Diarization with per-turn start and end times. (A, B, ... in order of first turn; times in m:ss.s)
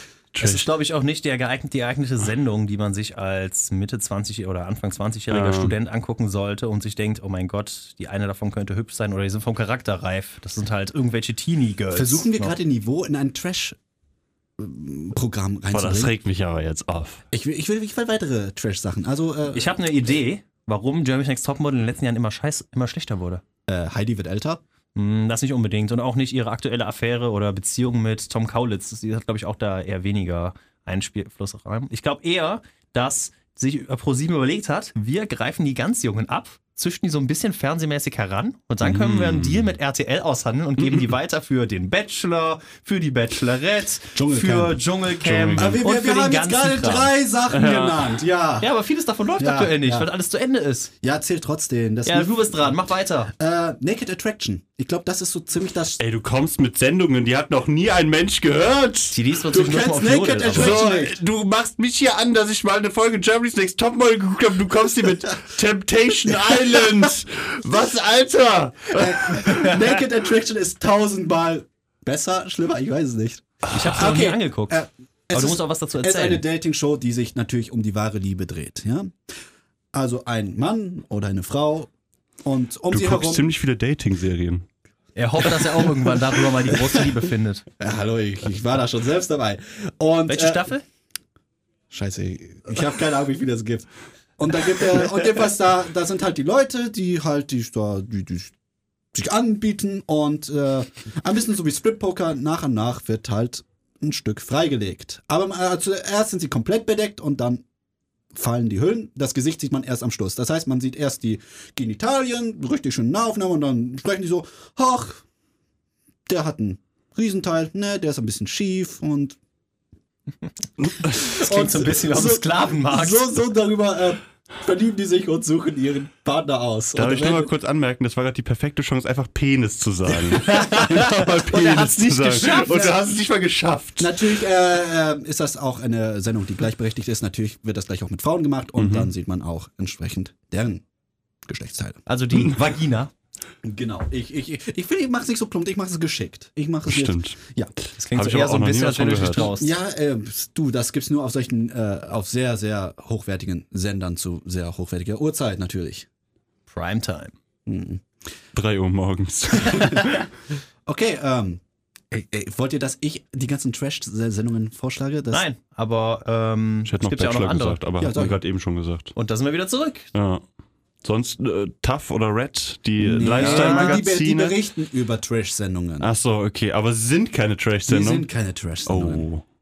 0:00.3-0:00.7 A
0:00.4-0:12.5 B
0:05.3-0:05.7 A
0:11.9-0:13.8 C
0:14.6-0:16.1 C
0:15.7-0:17.2 A
0:17.3-0:19.8 C
0:19.5-0:23.4 B
0:23.7-0:24.6 C
0:24.9-0:47.1 B
0:38.8-0:39.7 A
0:40.8-0:41.1 A
0:44.1-0:44.8 C
0:45.2-0:45.8 A
0:45.5-0:48.7 C
0:47.5-0:48.2 A
0:48.6-0:50.9 B
0:49.4-0:50.1 C
0:51.0-0:52.7 C
0:52.0-0:53.3 B
0:53.3-0:56.0 C
0:56.0-0:59.2 A
0:59.1-1:00.8 B
0:59.5-1:01.2 C
1:00.5-1:09.7 A
1:06.8-1:07.1 C
1:08.9-1:19.1 C
1:09.5-1:09.7 B
1:13.6-1:14.8 B
1:15.3-1:16.4 B
1:19.9-1:21.9 C
1:22.4-1:23.5 C
1:22.9-1:24.6 A
1:25.2-1:27.6 B
1:26.8-1:27.1 C
1:27.8-1:30.7 C
1:30.3-1:30.8 B
1:31.9-1:38.5 C
1:39.1-1:47.6 C
1:48.3-1:55.2 C
1:56.3-1:59.4 C
2:01.1-2:03.3 B
2:01.2-2:07.5 C
2:06.9-2:14.3 A
2:10.3-2:13.0 B
2:14.0-2:20.8 C
2:18.8-2:19.1 A
2:21.4-2:22.0 C
2:22.1-2:23.1 B
2:23.6-2:27.7 C
2:26.9-2:27.4 A
2:28.0-2:29.7 B
2:28.1-2:29.5 A
2:29.4-2:36.1 C
2:36.7-2:37.3 B
2:37.6-2:38.0 C
2:38.5-2:40.2 A
2:39.6-2:40.0 C
2:40.8-2:45.4 C
2:45.3-2:47.8 B
2:46.8-2:49.1 A
2:48.0-2:48.4 C
2:49.1-2:50.1 B
2:50.1-2:50.4 A
2:51.0-2:54.6 A
2:53.0-2:56.1 C
2:53.2-2:54.0 B
2:56.0-2:58.3 A
2:57.9-2:59.3 C
2:58.8-2:59.4 A